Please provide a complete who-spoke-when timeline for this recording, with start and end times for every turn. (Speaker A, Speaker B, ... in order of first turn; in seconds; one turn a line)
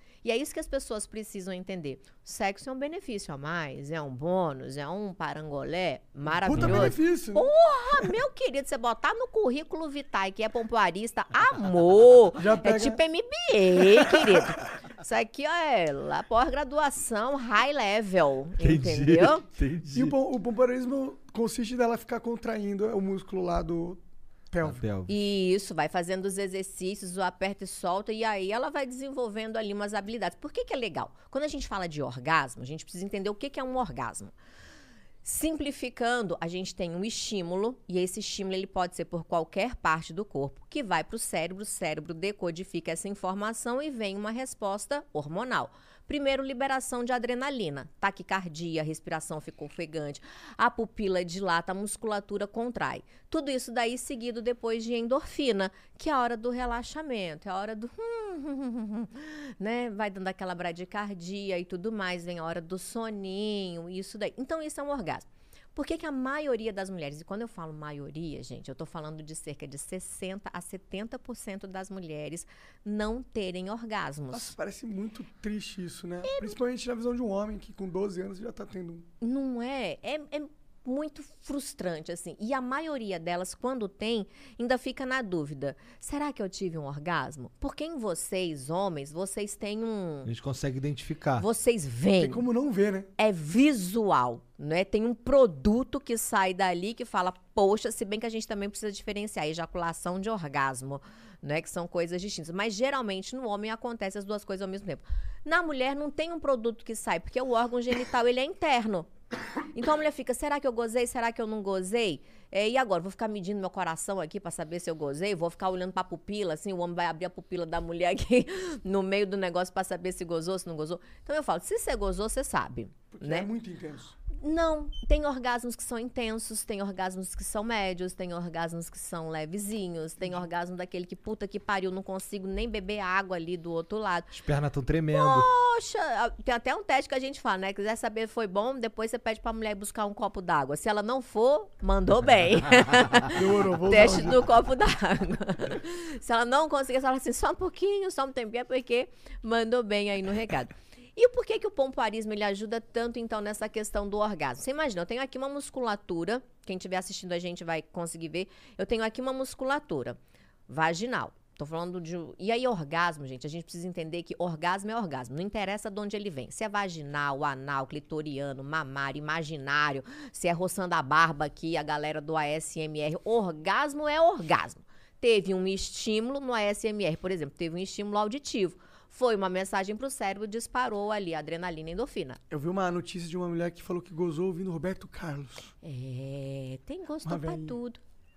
Speaker A: 0.2-19.5
Speaker B: 6.3-7.5
Speaker B: 12.4-13.0
Speaker B: 14.0-14.4
Speaker C: 18.6-20.1
Speaker B: 19.9-24.0
Speaker B: 24.5-24.8
Speaker C: 24.6-25.1
Speaker A: 25.1-34.3
Speaker A: 35.2-74.5
Speaker B: 74.3-79.0
Speaker A: 76.2-76.5
Speaker A: 79.2-90.3
Speaker C: 90.2-91.5
Speaker A: 91.4-92.4
Speaker B: 92.2-93.1
Speaker A: 93.2-109.1
Speaker A: 109.7-123.5
Speaker B: 123.1-124.2
Speaker A: 124.3-134.3
Speaker C: 134.3-135.5
Speaker A: 135.1-182.4
Speaker B: 143.3-144.4
Speaker B: 182.5-185.7
Speaker A: 185.8-188.0
Speaker B: 187.2-187.8